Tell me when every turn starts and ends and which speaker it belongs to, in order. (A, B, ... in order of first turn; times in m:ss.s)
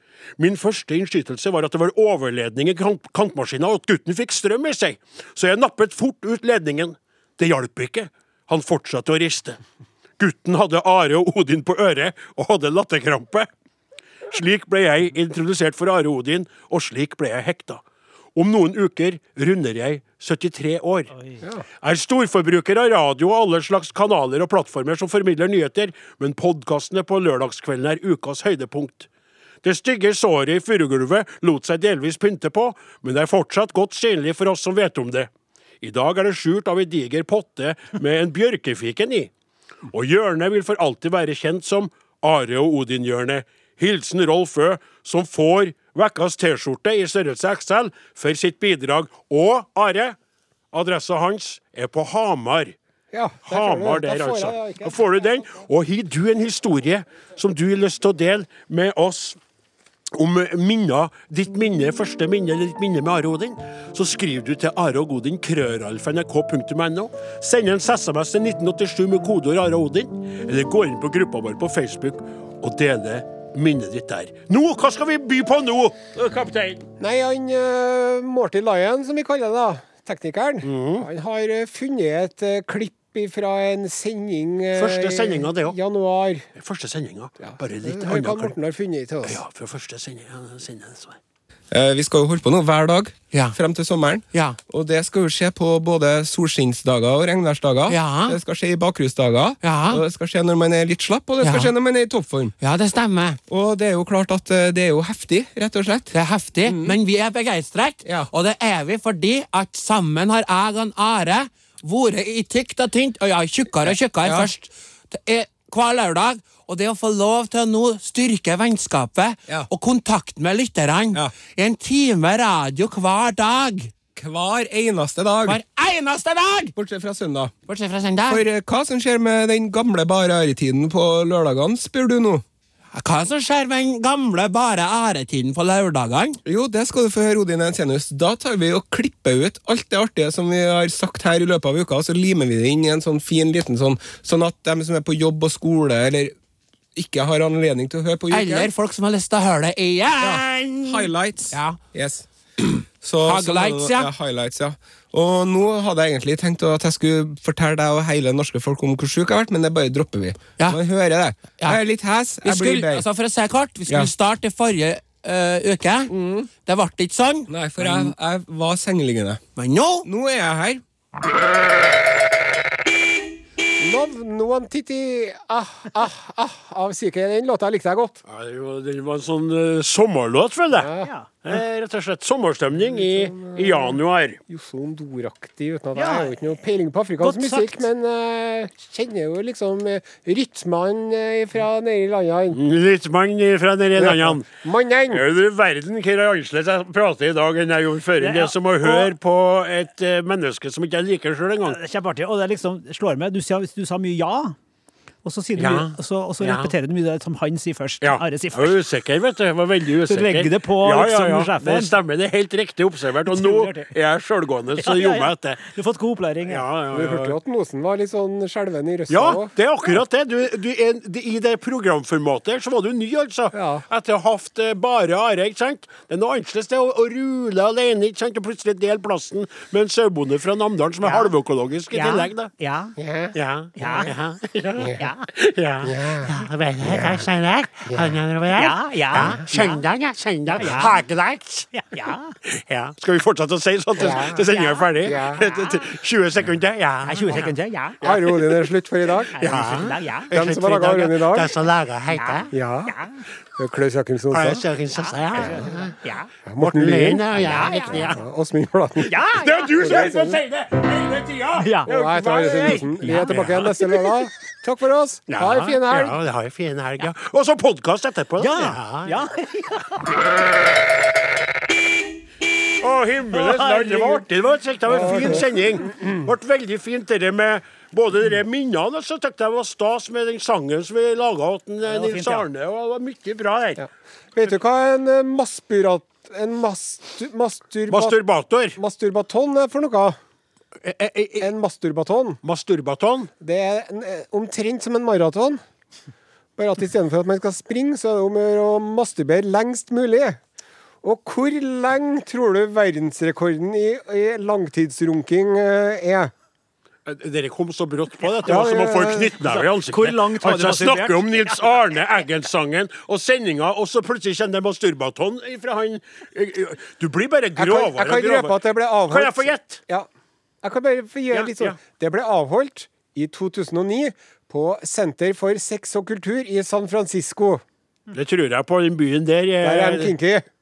0:00.4-0:09.6 A
0:10.2-0:13.5 A
0:14.3-0:17.8 A
0:18.4-0:21.1 A
0:21.8-0:29.1 A
0:29.6-0:35.3 A
0:35.8-0:39.3 A
0:39.9-0:50.2 A
0:50.7-0:52.8 A
0:53.1-0:55.7 B
0:53.4-0:59.4 A
1:00.1-1:16.8 A
1:17.0-1:26.5 B
1:20.6-1:21.1 A
1:24.7-1:25.8 A
1:26.6-1:28.5 A
1:27.4-1:29.4 B
1:29.2-1:31.2 A
1:31.7-1:42.6 C
1:33.3-1:33.6 D
1:34.3-1:34.6 D
1:37.9-1:38.4 D
1:39.6-1:40.0 D
1:41.4-1:41.7 D
1:42.6-1:43.4 D
1:43.5-1:47.0 C
1:46.1-2:03.9 D
1:48.0-1:48.3 C
1:53.8-1:54.5 C
2:01.1-2:01.4 C
2:04.2-2:05.6 C
2:05.5-2:06.7 D
2:06.8-2:07.6 C
2:07.7-2:08.4 D
2:08.3-2:12.4 C
2:12.9-2:16.4 D
2:16.4-2:26.3 C
2:27.0-2:28.7 C
2:28.3-2:31.8 D
2:30.2-2:32.3 C
2:33.0-2:43.1 C
2:33.2-2:34.1 D
2:42.4-2:48.1 D
2:43.9-2:44.1 C
2:46.1-2:46.5 C
2:47.5-2:49.4 C
2:49.6-2:50.1 D
2:50.0-2:50.8 C
2:53.8-2:58.2 B
2:58.3-3:00.9 A
3:00.7-3:01.1 B
3:01.0-3:01.3 E
3:01.4-3:04.4 A
3:02.8-3:12.6 B
3:06.0-3:06.5 E
3:07.2-3:07.9 E
3:12.5-3:14.5 A
3:14.0-3:15.2 B
3:15.1-3:21.8 A
3:18.2-3:19.1 E
3:21.7-3:24.6 E
3:25.2-3:28.8 E
3:25.6-3:26.7 A
3:28.0-3:35.6 A
3:30.1-3:32.0 E
3:33.3-3:33.9 E
3:34.8-3:36.7 E
3:36.5-3:37.4 A
3:36.9-3:39.5 B
3:39.1-3:52.5 A
3:43.5-3:43.9 B
3:51.0-3:51.3 E
3:51.9-3:53.0 E
3:53.0-3:53.3 B
3:53.3-4:01.7 A
3:53.8-3:54.1 E
3:55.0-3:55.3 E
3:55.8-3:56.3 B
3:57.9-3:58.2 B
3:58.5-3:59.8 E
4:00.6-4:00.9 E
4:01.7-4:02.4 E
4:02.4-4:08.5 A
4:04.0-4:04.5 B
4:04.4-4:05.8 E
4:05.0-4:05.5 B
4:07.0-4:08.0 E
4:08.0-4:09.4 B
4:09.3-4:10.3 E
4:09.4-4:12.5 A
4:10.3-4:11.6 B
4:12.1-4:13.2 E
4:12.5-4:13.0 B
4:13.6-4:14.6 B
4:14.3-4:15.9 A
4:15.0-4:16.3 E
4:16.5-4:17.4 B
4:16.6-4:18.2 A
4:17.3-4:18.1 E
4:18.0-4:19.2 B
4:19.0-4:20.1 E
4:19.3-4:24.3 A
4:19.8-4:20.4 B
4:21.6-4:21.9 E
4:21.9-4:26.2 B
4:23.0-4:23.5 E
4:25.3-4:29.2 A
4:28.4-4:30.1 E
4:32.8-4:43.8 A
4:33.3-4:34.3 E
4:34.9-4:35.5 B
4:35.0-4:35.4 E
4:41.8-4:42.4 E
4:43.8-4:48.2 B
4:47.9-4:48.8 A
4:48.8-4:50.2 B
4:50.8-4:51.5 A
4:51.4-4:52.4 B
4:52.4-4:53.3 A
4:53.4-4:55.6 B
4:56.6-5:00.4 B
5:01.0-5:06.3 B
5:07.1-5:19.8 A
5:08.4-5:09.4 B
5:09.4-5:11.7 E
5:17.6-5:20.1 B
5:20.6-5:27.6 B
5:21.3-5:21.8 A
5:28.1-5:30.2 A
5:29.6-5:30.5 B